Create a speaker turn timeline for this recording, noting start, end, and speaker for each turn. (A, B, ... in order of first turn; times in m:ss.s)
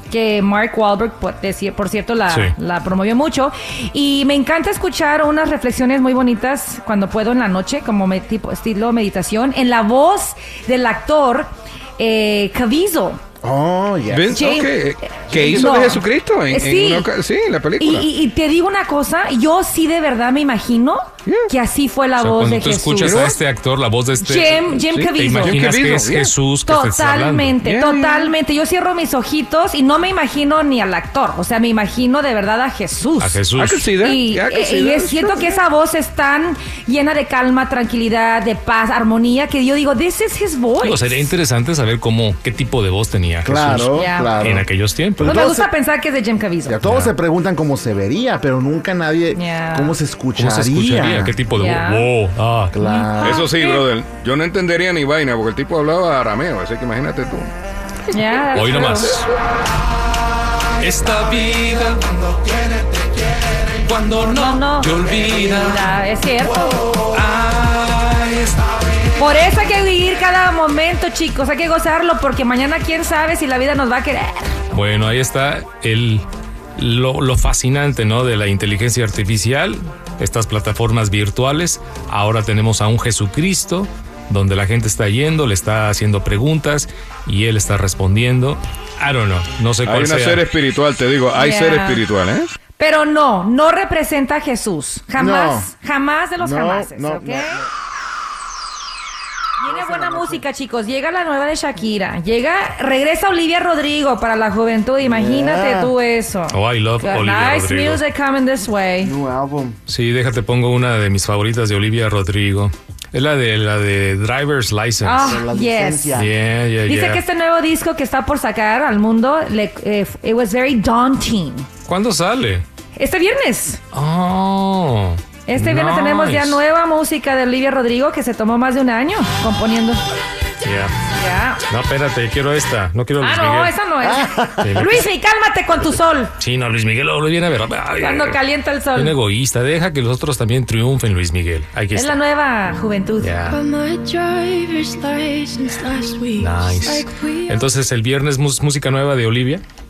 0:00.1-0:13.2 A
0:13.4-0:14.6 B
0:14.1-0:18.1 C
0:14.3-0:17.1 A
0:17.8-0:23.4 A
0:21.2-0:21.5 C
0:22.2-0:27.6 D
0:23.0-0:23.3 C
0:24.2-0:25.7 A
0:24.7-0:26.3 C
0:26.6-0:33.4 A
0:27.6-0:28.3 C
0:33.2-0:33.9 D
0:33.6-0:35.6 C
0:34.0-0:41.2 A
0:40.8-0:45.5 D
0:43.4-0:45.7 B
0:43.9-0:44.5 A
0:45.2-0:46.8 A
0:46.6-0:51.3 B
0:46.8-0:47.1 D
0:49.3-0:50.0 A
0:50.3-0:52.8 D
0:51.5-0:52.1 A
0:52.7-0:53.5 B
0:52.8-0:53.9 A
0:53.2-0:57.5 C
0:58.1-0:59.2 A
0:58.5-0:59.3 D
1:00.8-1:02.2 D
1:03.8-1:05.8 D
1:04.3-1:06.8 A
1:07.1-1:08.7 D
1:09.2-1:14.6 A
1:14.7-1:30.4 D
1:29.8-1:32.5 C
1:31.3-1:32.0 A
1:32.8-1:37.6 A
1:35.2-1:35.7 B
1:36.4-1:37.7 B
1:39.6-1:49.1 A
1:39.6-1:40.4 B
1:45.0-1:45.9 B
1:46.5-1:48.0 D
1:49.0-1:49.8 B
1:49.9-1:55.4 D
1:55.0-1:56.2 A
1:55.2-1:56.3 B
1:56.1-1:57.2 D
1:56.8-2:01.7 A
2:01.8-2:02.6 D
2:03.0-2:03.8 A
2:03.9-2:06.6 D
2:05.5-2:10.0 A
2:10.6-2:10.9 D
2:11.1-2:11.6 A
2:11.7-2:13.8 D
2:13.2-2:16.3 A
2:14.0-2:15.1 B
2:14.6-2:15.0 D
2:16.4-2:18.4 D
2:18.0-2:19.1 A
2:18.9-2:22.2 D
2:21.9-2:23.4 A
2:23.2-2:23.6 D
2:23.5-2:27.6 E
2:26.4-2:29.6 D